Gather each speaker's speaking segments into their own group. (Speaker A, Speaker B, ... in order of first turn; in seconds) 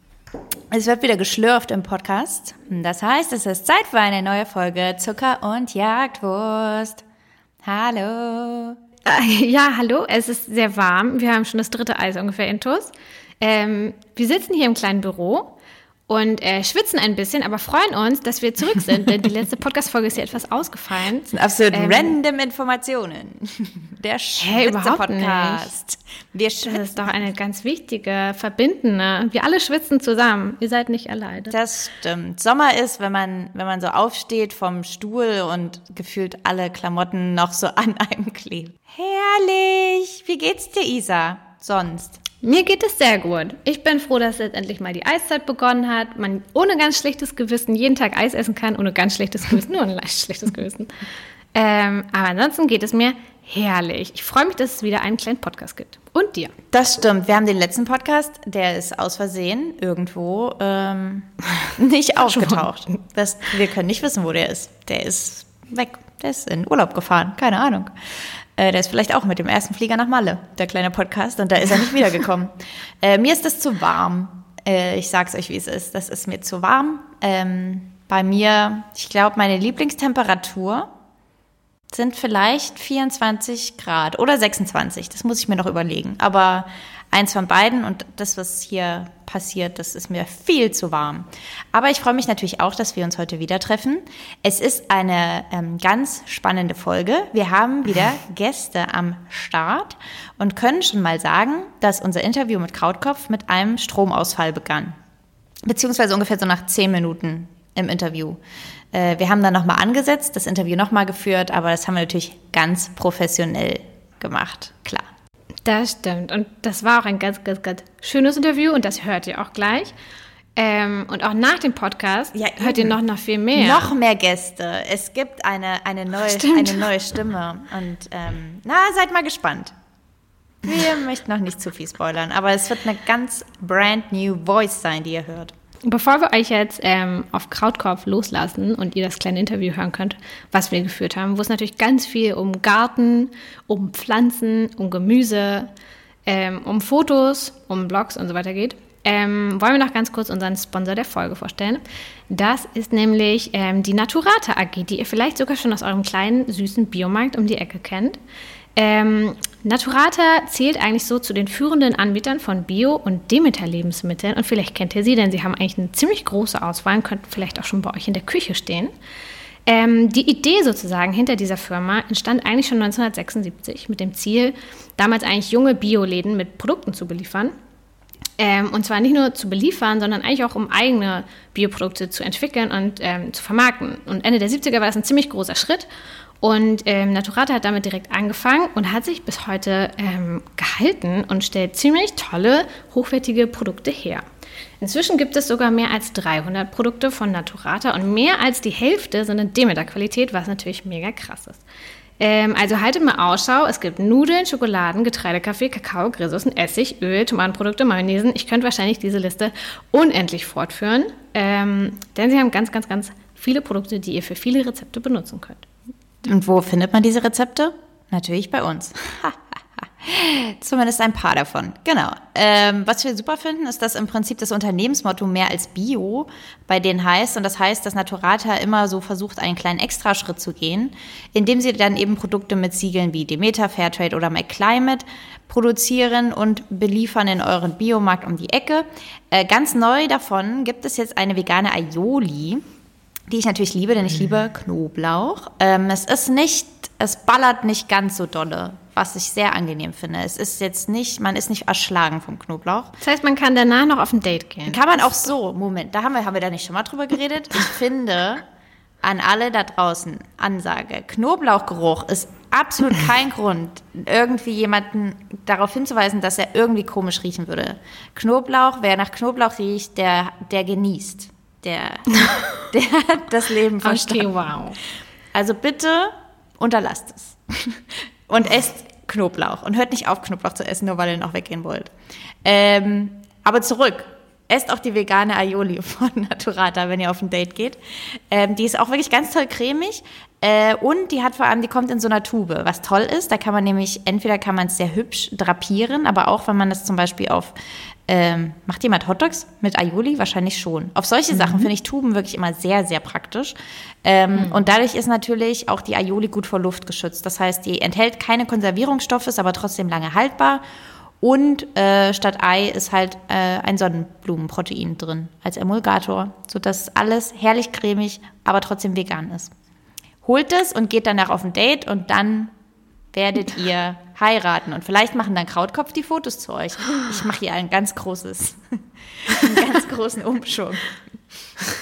Speaker A: 0.7-7.0, 7.6-8.8, 21.3-26.9, 31.4-42.2, 56.7-80.9, 81.9-105.0, 105.6-108.4, 108.9-115.1, 122.3-123.0, 123.5-129.7, 130.6-135.5, 216.2-242.6, 243.3-252.9, 254.7-258.4, 259.0-272.1, 272.7-274.3, 275.3-281.9, 282.4-297.6, 298.1-310.6, 311.2-319.5, 320.2-322.5, 323.1-330.9
Speaker B: 9.1-15.6, 16.1-22.1, 24.4-25.7, 26.6-31.6, 42.4-50.9, 51.5-56.5, 62.3-62.6, 115.6-119.9, 120.5-123.9, 126.3-126.9, 135.8-145.7, 146.2-158.2, 158.8-168.9, 169.7-177.5, 178.4-185.9, 186.4-194.2, 194.8-201.6, 202.2-215.6, 253.0-255.0, 273.8-274.8, 301.3-301.7, 304.3-304.6